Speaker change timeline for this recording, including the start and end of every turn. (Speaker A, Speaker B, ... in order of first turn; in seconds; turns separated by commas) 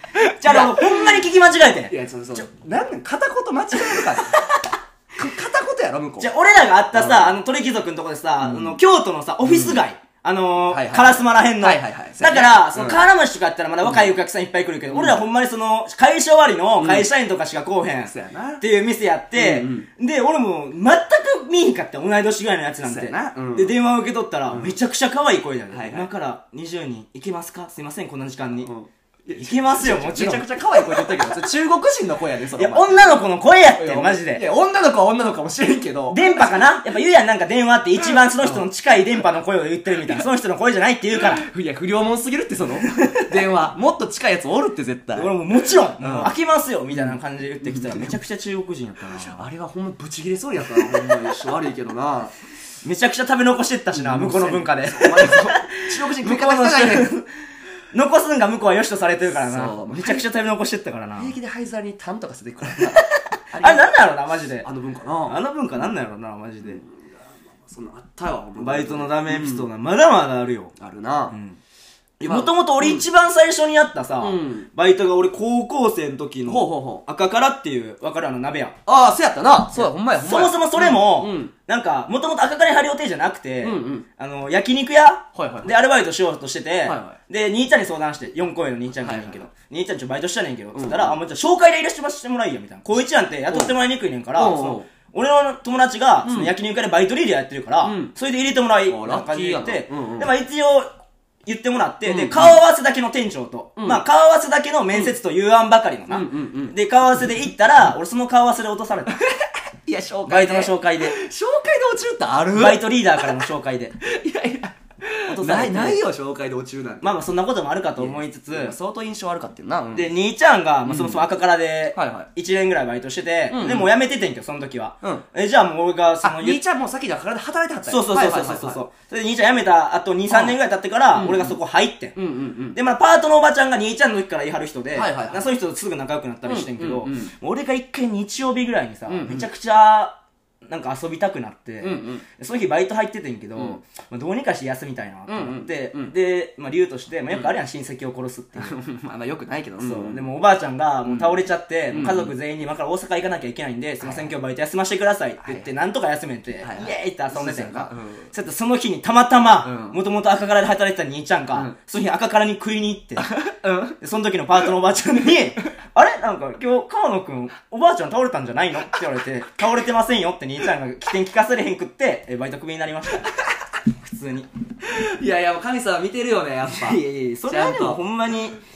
Speaker A: 0.2-1.1, Speaker B: 0.4-1.9, Speaker A: 1.9-4.5, Speaker B: 3.8-4.6, Speaker A: 5.2-6.3, Speaker B: 6.2-28.7, Speaker A: 6.9-7.3, Speaker A: 8.4-8.8, Speaker A: 9.4-9.8, Speaker A: 10.7-13.0, Speaker A: 13.8-14.1, Speaker A: 14.9-15.2, Speaker A: 16.8-17.1, Speaker A: 18.1-18.6, Speaker A: 19.3-19.9, Speaker A: 22.8-23.8, Speaker A: 24.5-24.8, Speaker A: 25.7-26.1, Speaker A: 28.6-33.0, Speaker B: 29.3-31.4, Speaker B: 32.5-34.4, Speaker A: 33.8-36.3, Speaker B: 36.1-41.4, Speaker A: 41.4-45.3, Speaker B: 42.8-43.4, Speaker B: 45.1-49.4, Speaker A: 46.0-46.3, Speaker A: 46.9-48.1, Speaker A: 49.1-52.3, Speaker B: 50.7-51.4, Speaker B: 52.8-57.3, Speaker A: 53.9-57.1, Speaker B: 57.9-61.3, Speaker A: 59.4-60.2, Speaker A: 61.1-63.9, Speaker B: 63.6-64.7, Speaker A: 64.6-65.4, Speaker B: 65.2-66.8, Speaker A: 66.6-69.7, Speaker B: 68.6-70.7, Speaker A: 70.8-71.4, Speaker B: 71.3-71.6, Speaker B: 72.2-78.8, Speaker A: 72.2-73.0, Speaker A: 74.2-74.7, Speaker A: 76.5-77.0, Speaker A: 78.8-81.5, Speaker B: 79.8-100.9, Speaker A: 83.6-84.0, Speaker A: 85.3-85.7, Speaker A: 86.8-87.2, Speaker A: 89.0-89.5, Speaker A: 90.7-91.2, Speaker A: 94.3-94.9, Speaker A: 96.2-96.5, Speaker A: 97.8-98.1, Speaker A: 98.9-100.3, Speaker B: 101.5-109.1, Speaker A: 102.0-102.6, Speaker A: 103.8-104.0, Speaker A: 106.1-106.8, Speaker A: 109.2-113.4, Speaker B: 110.3-111.2, Speaker B: 112.5-113.9, Speaker A: 114.0-117.1, Speaker B: 115.3-116.0, Speaker B: 117.0-118.7, Speaker A: 118.0-120.1, Speaker B: 119.9-126.6, Speaker A: 120.8-121.2, Speaker A: 121.9-122.3, Speaker A: 123.5-123.9, Speaker A: 126.2-128.8, Speaker B: 127.9-132.1, Speaker A: 130.3-130.6, Speaker A: 131.1-131.6, Speaker A: 132.1-132.8, Speaker B: 132.7-148.7, Speaker A: 134.9-135.5, Speaker A: 136.4-137.3, Speaker A: 139.1-139.5, Speaker A: 141.8-142.2, Speaker A: 145.3-146.1, Speaker A: 148.6-150.3, Speaker B: 149.8-163.3, Speaker A: 151.0-151.4, Speaker A: 151.9-152.3, Speaker A: 154.0-154.3, Speaker A: 155.4-155.7, Speaker A: 156.6-158.3, Speaker A: 159.6-160.0, Speaker A: 163.2-163.9, Speaker B: 164.0-173.3, Speaker B: 173.9-174.5, Speaker A: 174.8-178.0, Speaker B: 176.7-178.6